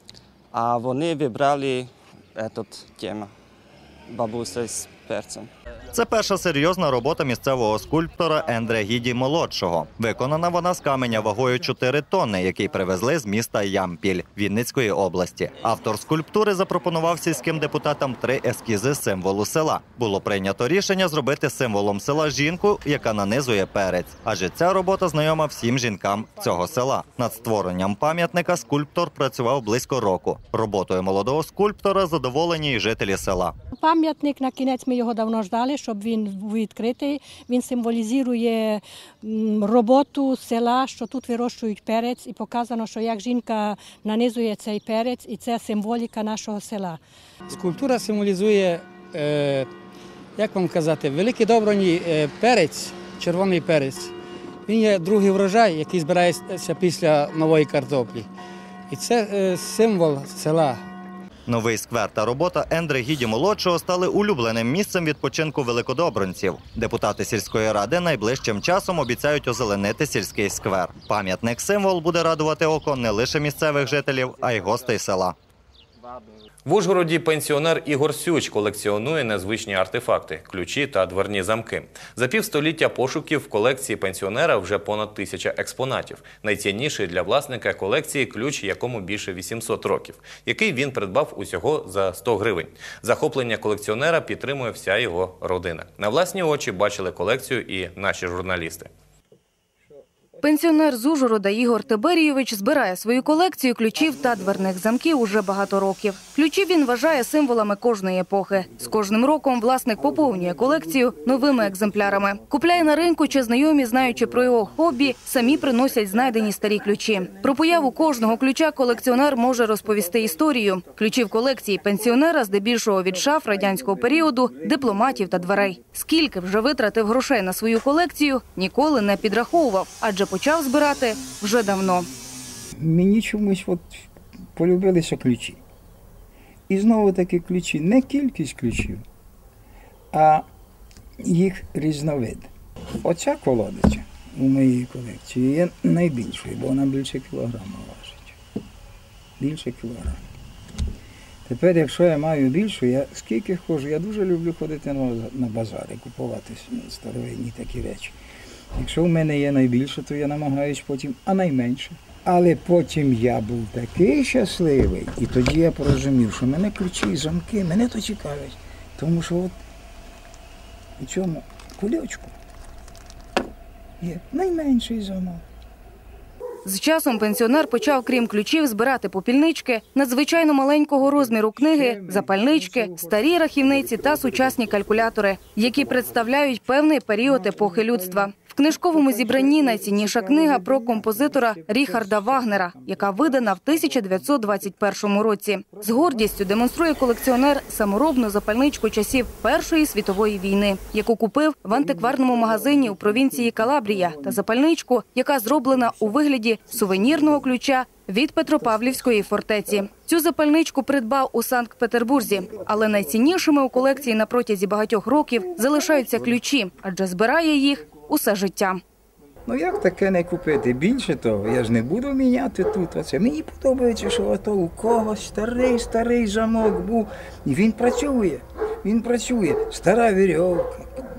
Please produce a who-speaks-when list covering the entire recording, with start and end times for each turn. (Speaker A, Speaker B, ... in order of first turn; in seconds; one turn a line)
Speaker A: 0.5-3.3
Speaker A: 4.1-5.5
Speaker B: 5.9-33.5
Speaker C: 33.8-47.0
Speaker D: 47.5-49.7
Speaker D: 50.4-54.1
Speaker D: 54.7-58.3
Speaker D: 58.9-60.8
Speaker B: 61.5-75.4
Speaker E: 76.7-98.9
Speaker F: 100.4-132.1
Speaker G: 132.8-135.6
Speaker G: 136.7-139.0
Speaker G: 140.1-140.5
Speaker G: 141.2-142.5
Speaker G: 143.0-148.3
Speaker G: 149.4-150.2
Speaker G: 151.5-158.2
Speaker G: 158.8-169.6
Speaker G: 171.0-172.3
Speaker G: 174.0-175.4
Speaker F: 176.7-218.8
Speaker G: 182.1-182.3
Speaker G: 219.5-230.9